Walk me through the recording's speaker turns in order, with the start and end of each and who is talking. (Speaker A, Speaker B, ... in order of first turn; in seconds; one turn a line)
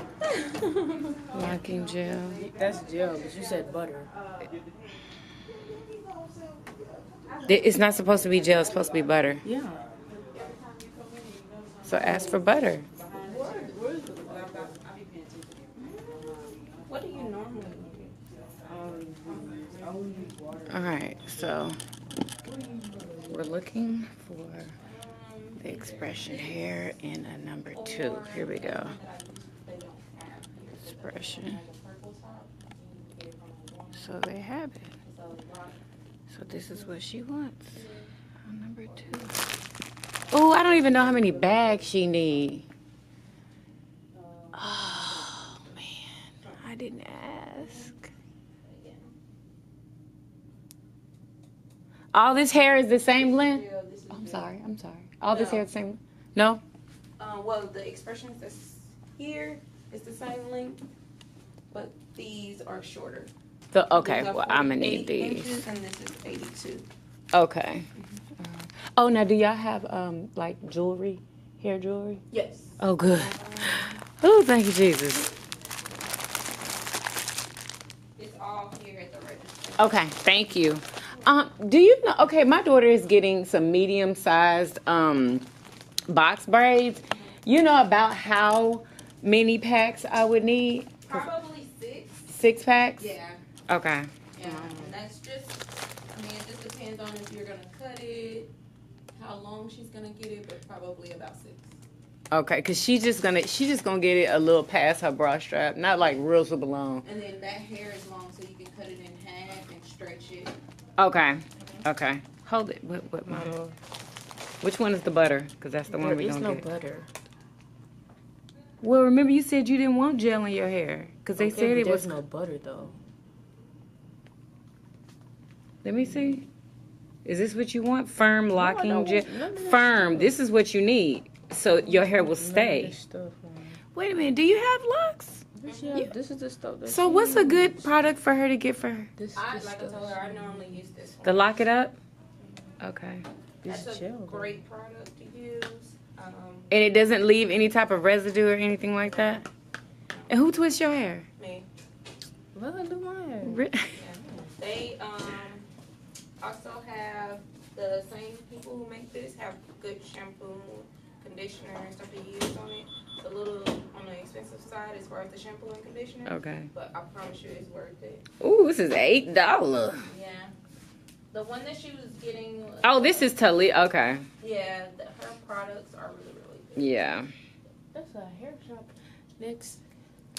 Speaker A: 1.3-2.5
Speaker B: 2.5-4.1
Speaker A: 7.5-9.4
Speaker B: 9.4-9.8
Speaker A: 11.8-12.9
Speaker B: 13.2-14.6
Speaker C: 14.3-15.1
Speaker C: 15.8-18.2
Speaker B: 18.7-20.7
Speaker A: 20.7-21.8
Speaker A: 23.3-24.8
Speaker C: 24.9-26.8
Speaker A: 25.6-29.0
Speaker C: 27.7-34.1
Speaker A: 30.8-31.6
Speaker A: 34.0-34.9
Speaker C: 35.0-35.7
Speaker A: 36.3-37.8
Speaker A: 38.5-39.4
Speaker C: 38.9-39.3
Speaker A: 40.3-42.7
Speaker A: 44.5-48.0
Speaker C: 47.5-47.9
Speaker C: 48.7-49.1
Speaker A: 52.1-56.6
Speaker C: 52.4-54.5
Speaker C: 55.3-55.7
Speaker C: 57.2-60.8
Speaker C: 61.7-63.3
Speaker A: 63.7-65.6
Speaker C: 63.9-66.9
Speaker A: 67.3-72.2
Speaker C: 72.3-74.0
Speaker A: 72.8-75.3
Speaker C: 78.2-79.9
Speaker A: 79.8-85.5
Speaker A: 86.1-91.3
Speaker C: 91.1-92.3
Speaker A: 92.3-93.1
Speaker C: 93.0-93.4
Speaker A: 93.7-94.9
Speaker C: 94.4-98.5
Speaker C: 99.1-101.7
Speaker A: 102.3-107.0
Speaker C: 107.0-110.6
Speaker A: 111.0-113.7
Speaker A: 114.6-116.7
Speaker B: 115.9-117.1
Speaker A: 118.8-122.2
Speaker B: 121.4-123.0
Speaker A: 125.8-126.5
Speaker A: 127.2-132.9
Speaker B: 128.5-130.4
Speaker B: 131.8-133.8
Speaker A: 133.9-136.1
Speaker B: 135.6-137.9
Speaker C: 135.7-136.0
Speaker A: 136.9-139.1
Speaker B: 139.2-140.6
Speaker C: 139.3-141.5
Speaker A: 141.2-142.0
Speaker A: 142.8-143.2
Speaker B: 143.6-144.6
Speaker C: 143.7-146.7
Speaker A: 146.7-149.4
Speaker A: 150.3-151.3
Speaker C: 151.4-151.7
Speaker B: 152.5-153.7
Speaker A: 153.4-153.9
Speaker C: 153.9-155.7
Speaker C: 156.4-168.2
Speaker A: 166.3-166.7
Speaker A: 168.4-170.1
Speaker C: 170.1-170.5
Speaker C: 171.3-173.3
Speaker A: 172.8-174.3
Speaker C: 174.4-176.9
Speaker A: 176.8-177.3
Speaker B: 177.9-179.8